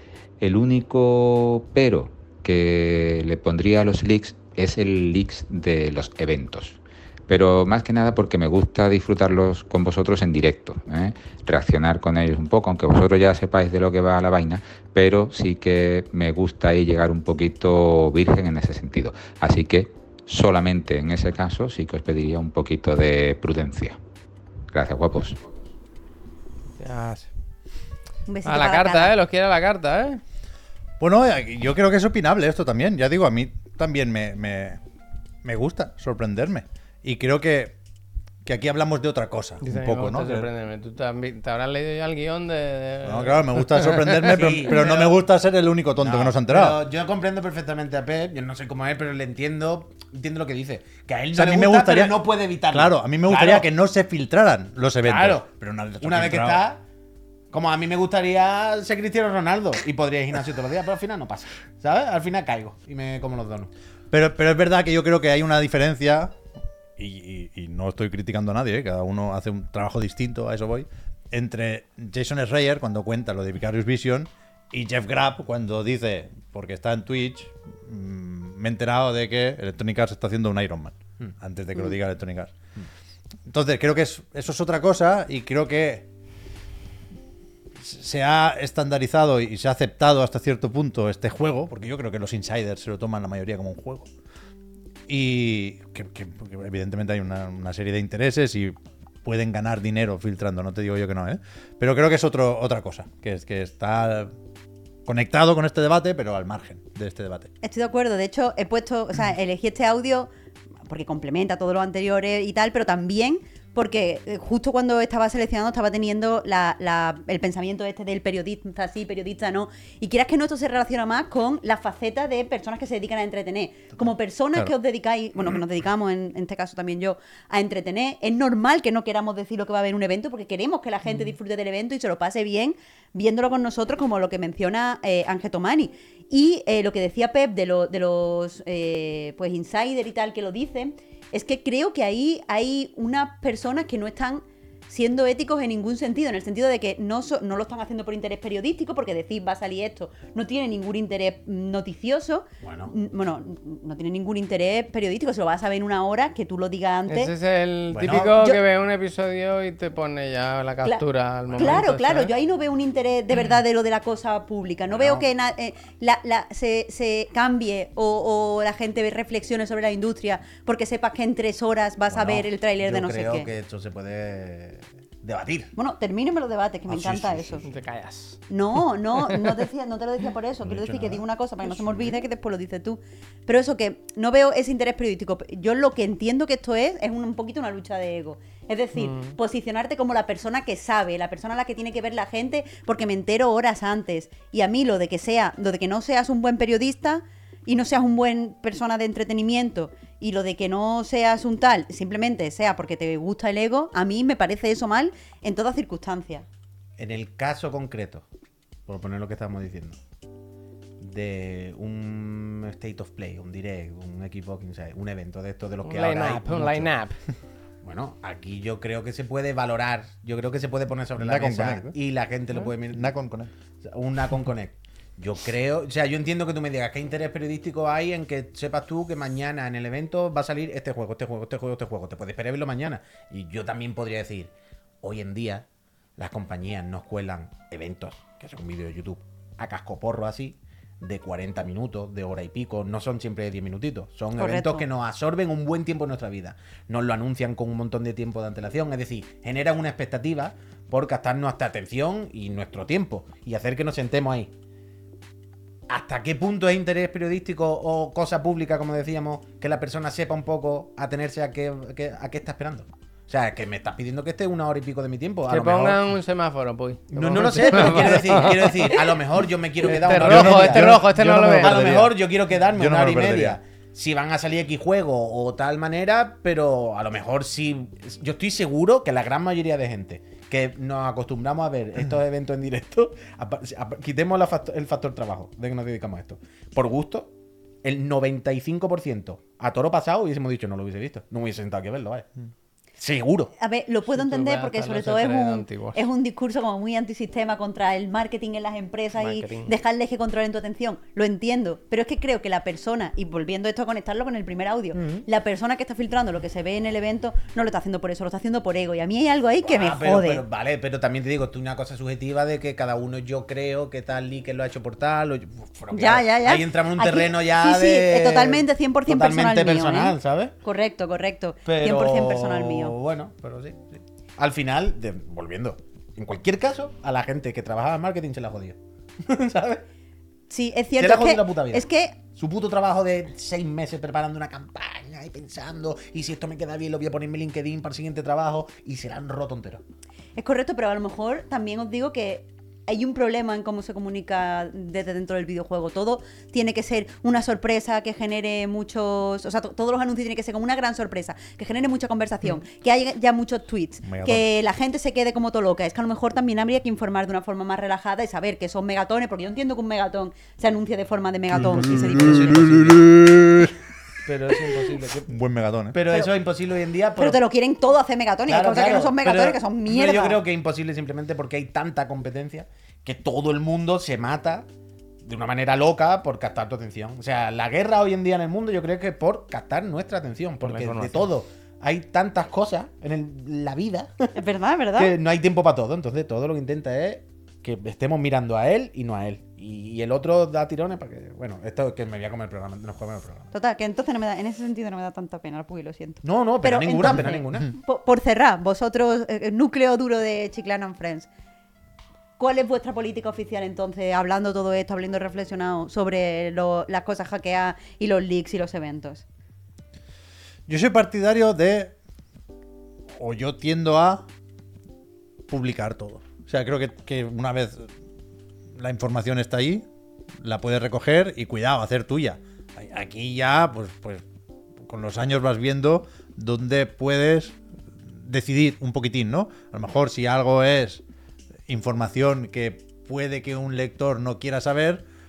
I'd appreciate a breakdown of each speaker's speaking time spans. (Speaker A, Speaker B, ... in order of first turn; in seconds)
Speaker A: 0.4-24.0, 24.7-25.4
Speaker B: 26.8-27.3, 28.4-30.2, 39.6-44.5, 157.1-162.3, 177.6-178.4, 179.2-179.5, 189.0-189.4, 215.8-217.2, 265.5-269.2, 269.8-271.9, 294.1-296.0, 299.2-299.7, 364.3-365.3, 380.6-381.3
Speaker C: 28.3-29.1, 107.6-110.3, 110.9-157.3, 158.3-158.6, 161.6-173.5, 175.8-177.6, 178.5-206.5, 244.4-244.8, 293.6-310.4, 315.9-322.9, 330.5-332.1, 340.4-362.7, 367.2-370.4, 384.4-385.1, 393.5-401.3, 402.4-409.2
Speaker D: 31.0-34.8, 35.4-37.8, 38.5-40.5, 43.0-46.8, 51.3-56.6, 64.1-66.3, 67.0-82.5, 83.5-86.1, 87.8-94.1, 95.1-104.3, 105.1-107.5, 221.2-221.9, 222.9-223.5, 267.3-268.5, 270.1-272.2, 272.7-273.6, 354.0-354.5, 361.6-363.8, 365.3-366.0, 410.7-411.9, 413.2-414.2, 415.5-417.9, 418.8-419.9, 420.4-424.2, 424.8-427.6, 428.1-431.0, 431.7-435.1
Speaker E: 44.3-45.2, 46.0-53.7, 55.0-55.5, 56.0-56.8, 57.5-63.7, 152.6-152.9, 157.9-158.3, 161.5-161.8, 164.9-165.3, 172.1-175.7, 176.9-177.7, 180.6-182.2, 207.0-208.2, 208.9-210.0, 211.0-216.9, 217.8-223.1, 223.8-234.5, 235.0-235.7, 236.2-254.5, 255.9-266.0, 267.1-287.3, 287.8-292.3, 293.0-293.5, 304.9-305.2, 309.6-320.5, 321.7-329.9, 331.0-339.8, 361.6-363.0, 365.9-367.4, 368.5-374.7, 375.2-384.3, 385.0-393.5, 396.2-397.7